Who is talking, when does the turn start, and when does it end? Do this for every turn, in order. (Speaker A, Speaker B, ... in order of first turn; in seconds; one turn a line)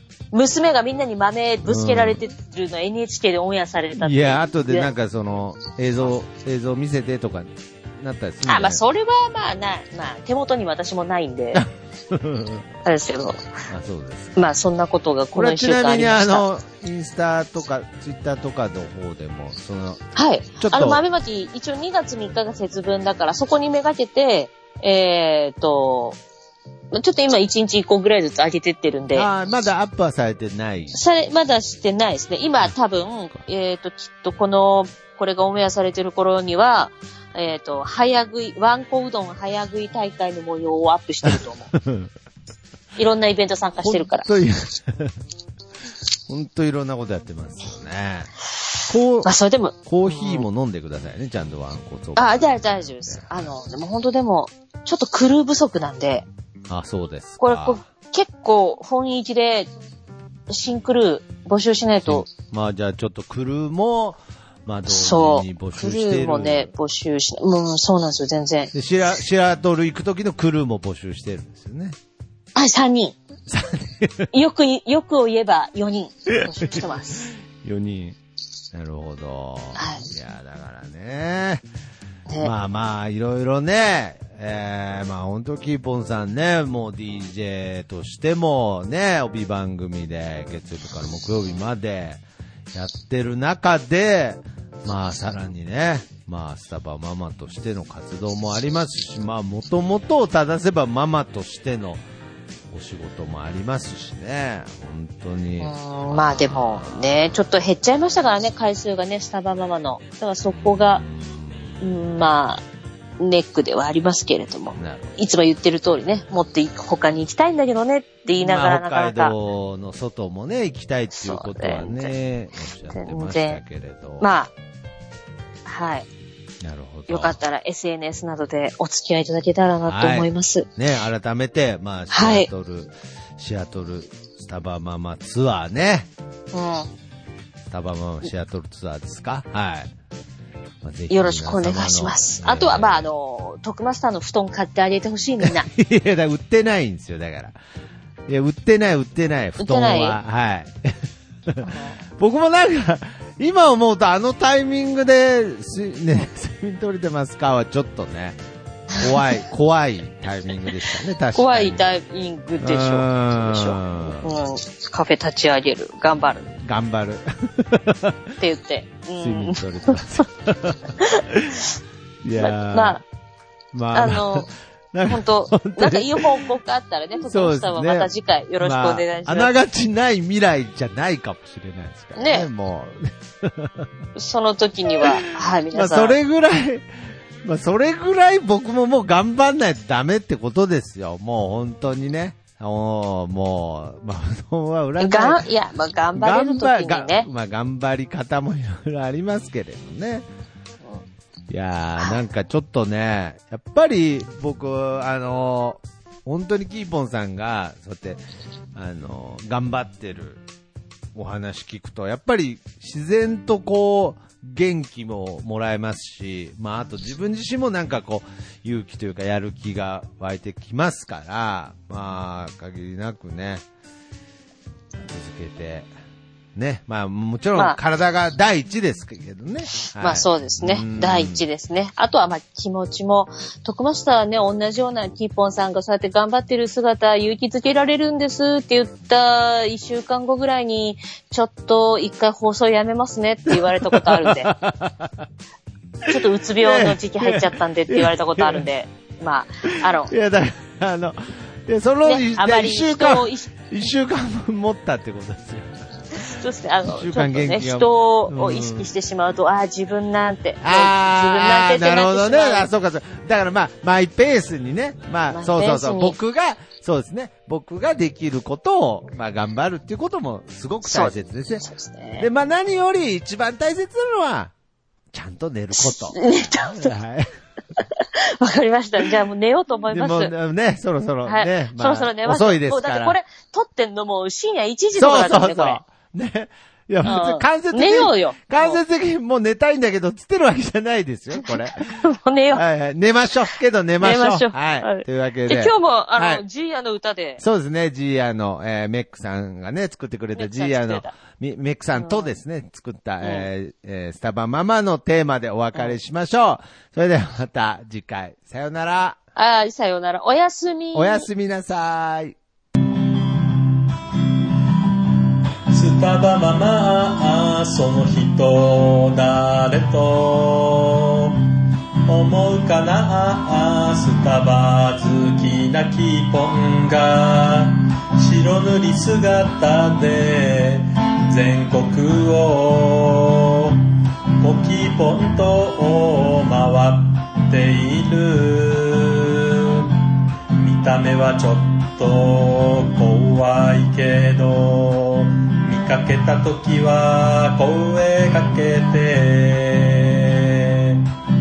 Speaker A: 0.3-4.9
Speaker B: 1.7-2.2
Speaker B: 4.0-8.8
Speaker A: 8.4-11.7
Speaker B: 11.5-12.7
Speaker A: 12.8-13.5
Speaker B: 13.7-14.4
Speaker A: 14.4-16.4
Speaker B: 15.3-20.0
Speaker A: 20.1-26.2
Speaker B: 20.6-21.0
Speaker A: 26.9-29.3
Speaker B: 29.1-31.0
Speaker A: 30.9-41.7
Speaker B: 41.8-42.1
Speaker A: 43.0-44.3
Speaker B: 43.8-45.2
Speaker B: 46.3-48.3
Speaker B: 48.9-49.3
Speaker A: 49.2-50.5
Speaker B: 49.8-53.5
Speaker A: 52.2-56.3
Speaker B: 56.7-57.8
Speaker A: 57.4-59.7
Speaker A: 60.5-62.3
Speaker B: 62.1-66.7
Speaker A: 64.9-68.7
Speaker B: 68.7-72.0
Speaker A: 72.5-73.2
Speaker B: 73.5-74.3
Speaker A: 74.3-77.3
Speaker B: 76.5-78.2
Speaker B: 78.7-81.6
Speaker A: 79.8-80.1
Speaker B: 82.4-102.0
Speaker B: 102.7-107.2
Speaker A: 105.6-111.0
Speaker B: 110.5-111.8
Speaker A: 111.8-112.6
Speaker A: 113.2-119.3
Speaker B: 114.8-115.2
Speaker B: 118.4-124.3
Speaker A: 121.1-122.1
Speaker A: 122.9-123.6
Speaker A: 124.2-124.5
Speaker A: 125.7-126.1
Speaker B: 126.6-127.4
Speaker A: 127.1-130.7
Speaker B: 129.9-136.1
Speaker A: 132.1-132.5
Speaker A: 136.5-136.9
Speaker B: 137.7-139.9
Speaker B: 140.8-143.0
Speaker A: 141.1-145.7
Speaker B: 145.4-147.6
Speaker B: 148.3-151.7
Speaker A: 149.6-150.2
Speaker A: 151.6-152.0
Speaker B: 152.2-158.4
Speaker B: 158.9-161.8
Speaker A: 161.3-166.5
Speaker B: 162.6-164.3
Speaker B: 166.5-168.2
Speaker A: 168.4-170.0
Speaker B: 169.2-171.6
Speaker B: 172.2-173.0
Speaker A: 172.4-173.0
Speaker B: 173.7-176.4
Speaker A: 173.9-174.5
Speaker A: 175.0-179.5
Speaker B: 177.2-183.9
Speaker A: 182.2-182.5
Speaker A: 184.2-186.2
Speaker B: 185.7-186.8
Speaker B: 187.4-195.5
Speaker A: 195.0-197.3
Speaker B: 196.2-200.3
Speaker B: 201.5-208.2
Speaker B: 208.8-210.4
Speaker B: 211.2-223.6
Speaker B: 225.0-225.9
Speaker B: 226.6-231.4
Speaker A: 227.5-227.8
Speaker A: 229.9-244.5
Speaker B: 243.5-245.3
Speaker B: 246.0-248.7
Speaker A: 246.1-250.1
Speaker B: 249.8-255.8
Speaker A: 252.0-253.7
Speaker A: 256.1-262.7
Speaker B: 256.9-258.9
Speaker B: 260.6-271.6
Speaker A: 265.3-266.2
Speaker A: 270.8-272.3
Speaker B: 272.2-274.5
Speaker B: 275.1-277.3
Speaker A: 275.7-276.9
Speaker A: 277.8-280.3
Speaker B: 279.9-283.2
Speaker A: 281.3-285.8
Speaker B: 285.0-296.4
Speaker A: 287.0-288.8
Speaker A: 291.3-292.6
Speaker A: 294.0-297.4
Speaker B: 297.4-309.2
Speaker A: 300.4-301.1
Speaker A: 301.9-302.3
Speaker A: 303.2-303.5
Speaker A: 309.4-311.3
Speaker B: 310.9-312.4
Speaker C: 315.7-321.5
Speaker C: 322.1-351.1